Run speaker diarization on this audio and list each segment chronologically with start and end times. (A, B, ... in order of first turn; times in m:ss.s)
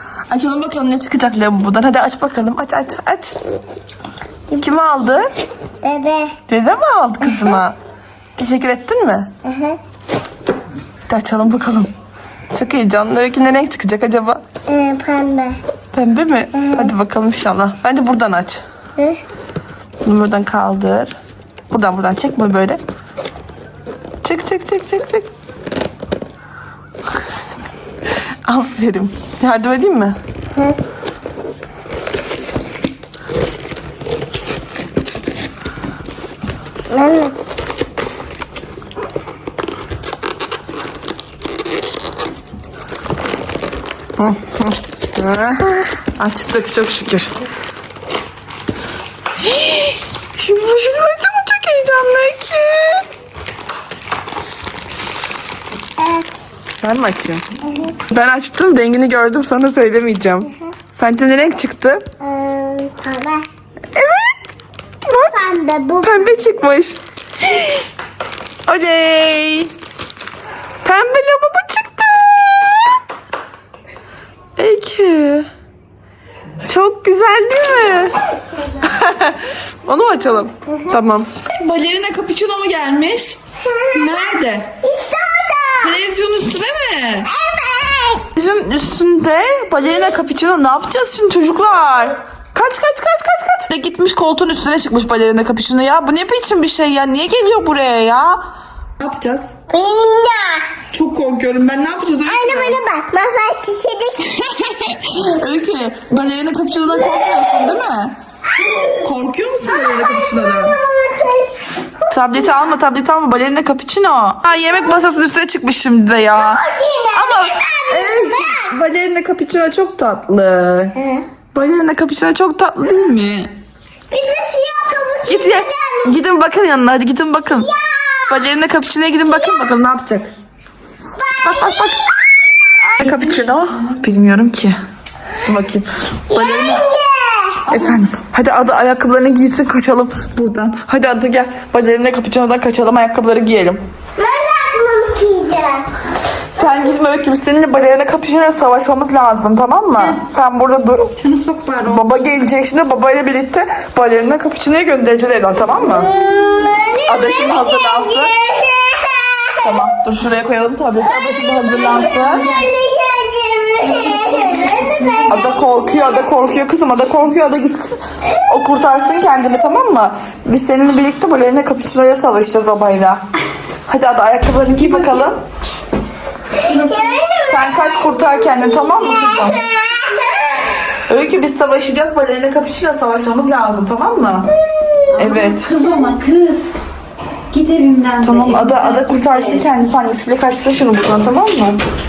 0:00.3-0:03.4 A
0:04.5-0:05.3 A
0:05.8-0:06.4 B
0:06.5-0:07.8 A
0:08.4-0:09.3 A
0:09.4-0:09.8 B
0:11.1-0:11.9 A
0:12.5-0:14.4 A
0:14.7-0:15.6 B
0:15.9-0:18.6 A
0:16.5-0:16.9 B
0:20.0-0:21.2 A
0:21.7-0:22.8 A
0:24.2-0:25.3 A
0:28.4-0:30.2 A
0:36.9-0:37.5 B
0:44.2-0:47.4 A
0:49.4-0:53.1 A
0:56.0-0:56.4 B
0:56.8-0:57.4 A
0:57.7-0:58.0 B
0:58.0-1:02.1 A
1:02.2-1:03.5 B
1:04.0-1:04.6 A
1:05.1-1:05.4 A
1:05.2-1:06.5 B
1:06.0-1:07.7 A
1:08.7-1:09.7 A
1:10.8-1:13.0 A
1:14.6-1:15.5 A
1:16.6-1:18.2 A
1:18.3-1:18.9 B
1:18.8-1:23.4 A
1:20.7-1:21.0 B
1:23.6-1:24.2 B
1:23.9-1:24.8 A
1:24.8-1:26.0 B
1:25.8-1:27.3 A
1:27.2-1:28.3 B
1:28.4-1:38.4 A
1:39.0-1:39.5 A
1:39.7-1:40.7 B
1:40.9-1:42.8 A
1:42.2-1:44.4 B
1:44.3-1:48.2 A
1:46.9-1:47.8 B
1:48.6-1:49.0 B
1:49.0-1:50.8 A
1:49.6-1:52.6 B
1:52.1-1:56.6 A
1:54.7-1:55.1 B
1:56.4-1:58.8 B
1:57.1-2:01.0 A
2:01.0-2:01.3 B
2:01.5-2:03.5 A
2:04.1-2:06.2 B
2:05.3-2:07.7 A
2:07.6-2:08.4 B
2:08.3-2:10.3 A
2:11.2-2:12.7 B
2:11.4-2:12.1 A
2:12.8-2:14.8 A
2:15.4-2:16.9 A
2:16.3-2:17.8 B
2:17.7-2:23.8 A
2:24.2-2:25.9 B
2:26.5-2:31.2 A
2:31.2-2:32.2 C
2:31.8-2:36.1 A
2:35.8-2:39.9 B
2:37.1-2:38.3 A
2:39.6-2:42.5 A
2:41.0-2:46.2 B
2:41.9-2:42.6 C
2:43.8-2:45.5 C
2:45.3-2:53.2 A
2:53.9-2:55.4 A
2:56.6-2:57.2 C
2:56.7-3:00.8 B
2:57.4-2:59.7 A
3:01.1-3:04.5 A
3:04.7-3:05.1 B
3:05.1-3:05.8 A
3:05.2-3:06.7 C
3:07.5-3:09.6 C
3:08.2-3:11.8 A